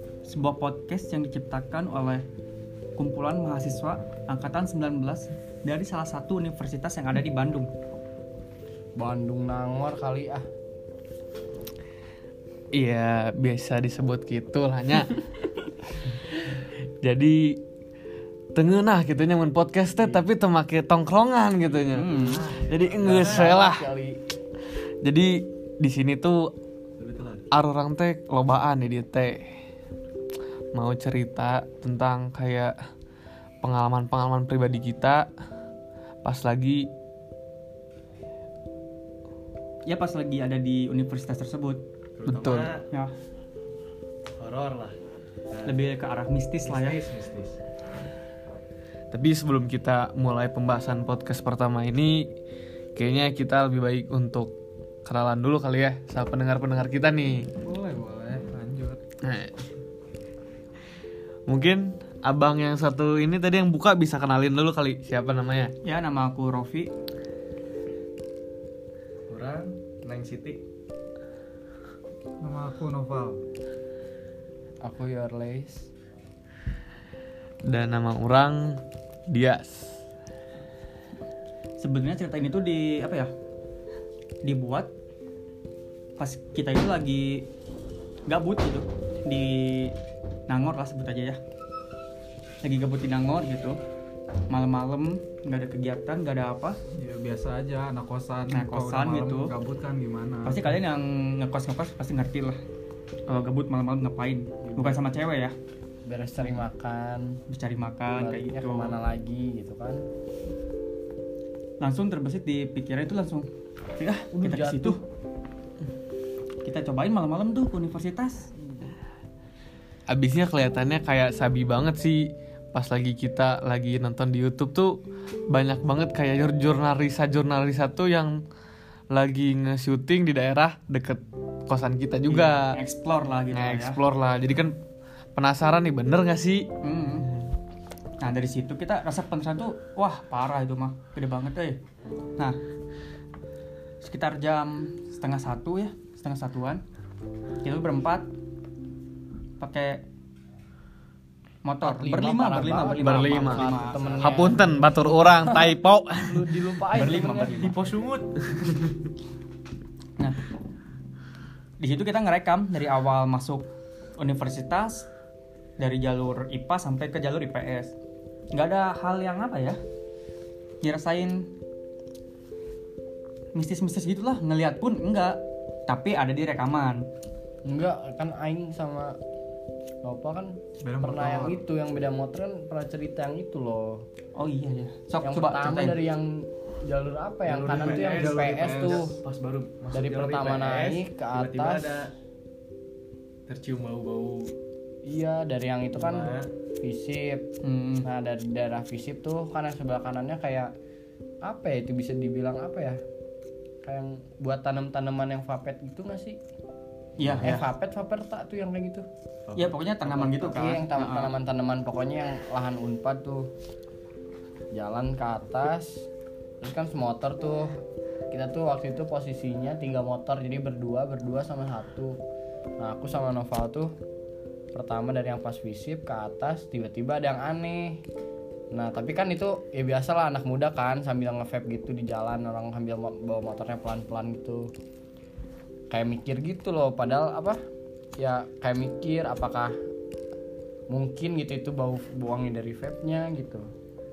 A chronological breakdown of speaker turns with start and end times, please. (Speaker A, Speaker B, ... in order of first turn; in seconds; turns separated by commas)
Speaker A: 0.2-2.2, Speaker A: 3.0-7.7, Speaker B: 8.9-10.4, Speaker C: 12.7-17.6, Speaker C: 18.5-23.8, Speaker A: 21.9-22.5, Speaker D: 22.1-23.6, Speaker B: 23.0-24.2, Speaker C: 25.0-26.5, Speaker D: 27.0-27.5, Speaker C: 27.5-29.5, Speaker C: 30.7-32.7, Speaker C: 33.6-35.3, Speaker C: 36.2-36.9, Speaker A: 39.9-41.8, Speaker D: 42.2-42.8, Speaker C: 42.3-42.7, Speaker D: 44.4-44.9, Speaker A: 45.6-47.0, Speaker D: 46.6-47.6, Speaker C: 49.1-52.3, Speaker C: 53.0-54.5, Speaker C: 55.0-57.5, Speaker E: 57.6-59.0, Speaker C: 59.2-59.5, Speaker C: 61.5-65.7, Speaker A: 65.8-66.9, Speaker D: 69.3-70.6, Speaker E: 72.4-73.4, Speaker B: 74.8-75.9, Speaker C: 77.6-80.0, Speaker A: 81.8-83.3, Speaker A: 84.4-84.9, Speaker A: 86.2-87.5, Speaker A: 88.3-89.9, Speaker A: 90.5-91.4, Speaker A: 92.6-93.8, Speaker A: 94.5-96.8, Speaker E: 96.9-100.6, Speaker A: 98.5-99.5, Speaker A: 100.4-102.6, Speaker A: 103.3-105.5, Speaker B: 104.6-105.0, Speaker B: 106.0-107.4, Speaker A: 107.5-109.0, Speaker B: 108.1-110.0, Speaker A: 111.8-115.0, Speaker B: 114.3-115.0, Speaker A: 116.6-118.5, Speaker C: 120.1-128.4, Speaker C: 129.1-132.8, Speaker A: 132.3-134.0, Speaker C: 133.5-134.8, Speaker C: 135.3-136.7, Speaker A: 136.8-137.3, Speaker A: 138.2-141.8, Speaker A: 144.0-146.8, Speaker A: 147.6-148.3, Speaker A: 149.6-150.0, Speaker A: 151.6-154.5, Speaker B: 151.8-157.8, Speaker C: 152.5-153.7, Speaker C: 154.2-157.2, Speaker A: 156.9-157.7, Speaker D: 157.3-158.7, Speaker A: 161.8-163.7, Speaker A: 164.2-165.1, Speaker A: 165.8-167.9, Speaker A: 168.5-169.8, Speaker A: 170.8-171.5, Speaker A: 173.5-177.1, Speaker B: 177.7-179.2, Speaker B: 180.0-184.0, Speaker E: 180.8-181.6, Speaker A: 184.3-186.0, Speaker B: 185.2-189.2, Speaker D: 187.5-192.1, Speaker E: 187.8-189.0, Speaker B: 189.9-192.0, Speaker D: 193.5-194.5, Speaker B: 195.0-197.4, Speaker D: 195.9-196.5, Speaker A: 197.6-198.1, Speaker B: 198.0-200.7, Speaker B: 201.4-203.0, Speaker B: 203.8-206.4, Speaker A: 207.2-207.7, Speaker B: 207.4-209.0, Speaker D: 209.5-210.4, Speaker A: 209.6-211.3, Speaker B: 210.3-213.4, Speaker B: 214.7-216.1, Speaker B: 216.6-217.7, Speaker B: 218.3-222.1, Speaker B: 222.8-223.9, Speaker B: 224.7-228.0, Speaker B: 228.7-234.7, Speaker B: 235.9-237.6, Speaker B: 238.2-239.7, Speaker B: 240.9-243.6